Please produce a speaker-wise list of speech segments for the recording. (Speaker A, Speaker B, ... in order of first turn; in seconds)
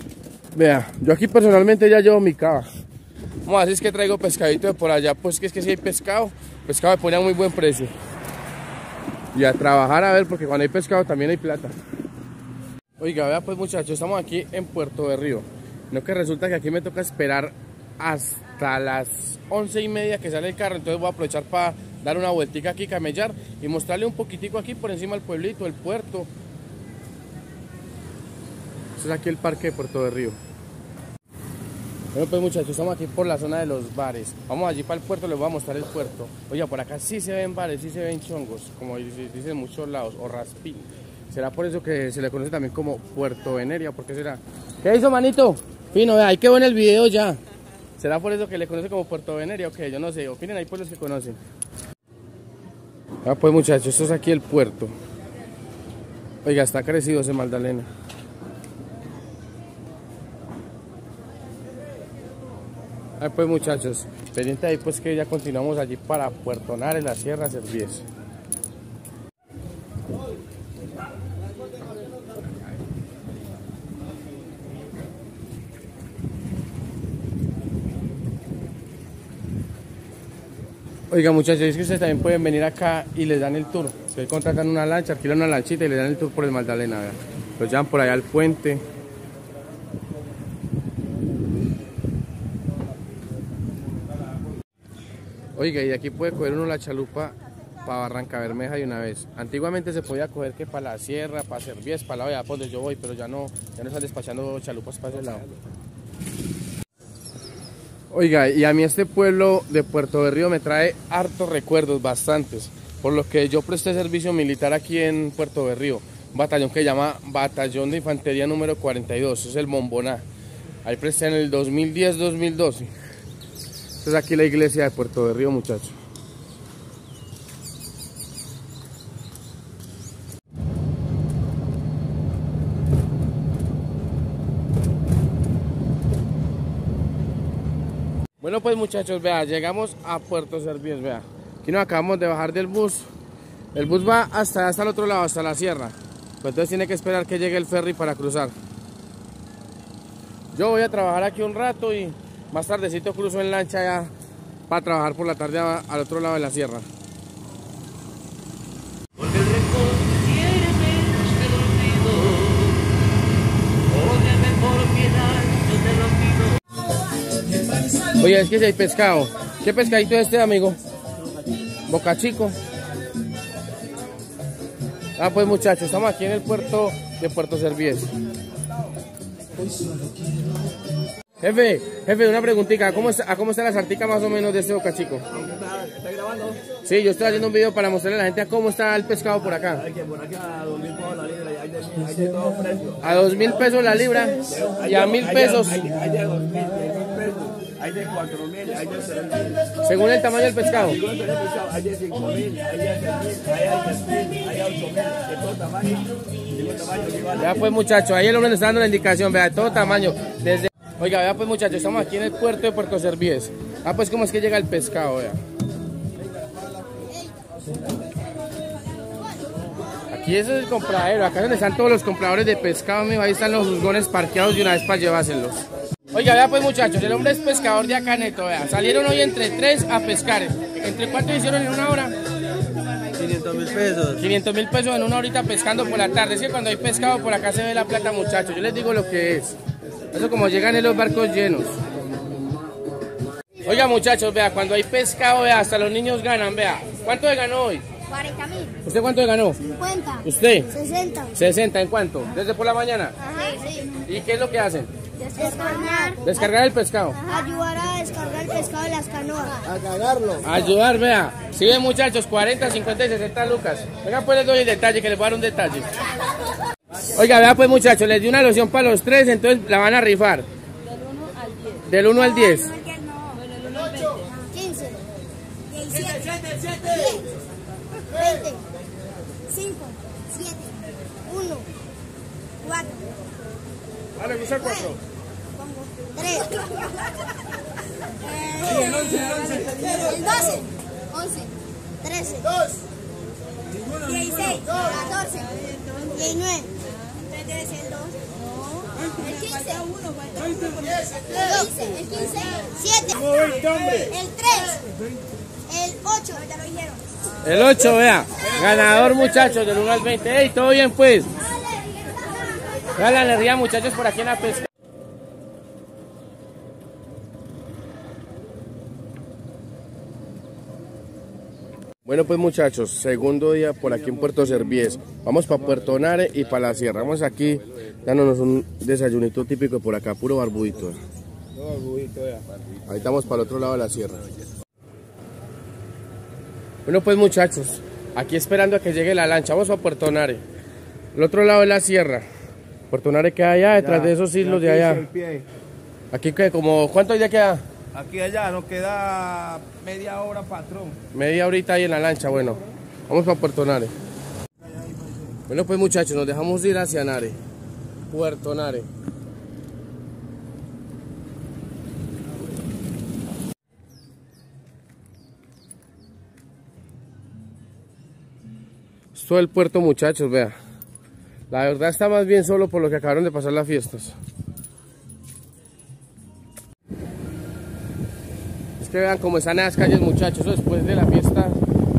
Speaker A: 0.5-2.7, 3.5-7.9, 9.3-11.8, 13.0-26.3, 29.0-30.4, 32.1-47.4, 48.0-51.4, 53.2-54.9, 56.4-57.9, 63.2-68.1, 81.1-88.8, 95.6-105.5, 108.1-120.2, 120.8-122.9, 124.0-126.0, 138.4-143.1, 143.7-148.5, 150.5-154.1, 154.7-156.9, 168.2-170.8, 171.9-172.6, 175.2-178.1, 181.4-185.3, 186.8-189.8, 193.0-195.8, 199.8-201.0, 207.4-215.4, 220.1-225.6, 226.1-232.2, 234.1-239.6, 240.1-241.8, 243.6-247.8, 248.8-249.7, 250.2-250.7, 251.3-253.2, 254.0-254.9, 256.2-257.2, 260.4-266.0, 267.1-270.5, 271.9-272.8, 307.4-311.4, 313.0-314.7, 322.1-331.0, 332.9-334.3, 336.9-340.4, 341.1-342.3, 342.9-345.1, 346.1-347.6, 351.1-353.9, 355.5-357.4, 358.1-358.9, 369.1-370.6, 371.5-374.2, 378.8-381.6
Speaker B: 159.3-162.6, 164.1-166.2, 233.2-234.1, 248.2-248.7, 255.3-256.1, 259.7-260.4, 273.8-274.1
Speaker C: 185.3-186.6, 189.8-193.0, 194.5-199.6, 200.8-207.5, 331.6-332.5, 344.0-345.4, 347.9-351.0
Speaker D: 248.2-248.6, 249.7-251.4, 253.2-254.0, 255.3-256.4, 257.2-259.8, 272.5-273.4, 273.9-275.0, 275.7-277.3, 278.1-278.6, 279.5-281.7, 282.6-283.1, 284.2-285.0, 285.6-287.1, 288.2-292.7, 293.9-304.9, 305.7-307.0, 311.5-312.4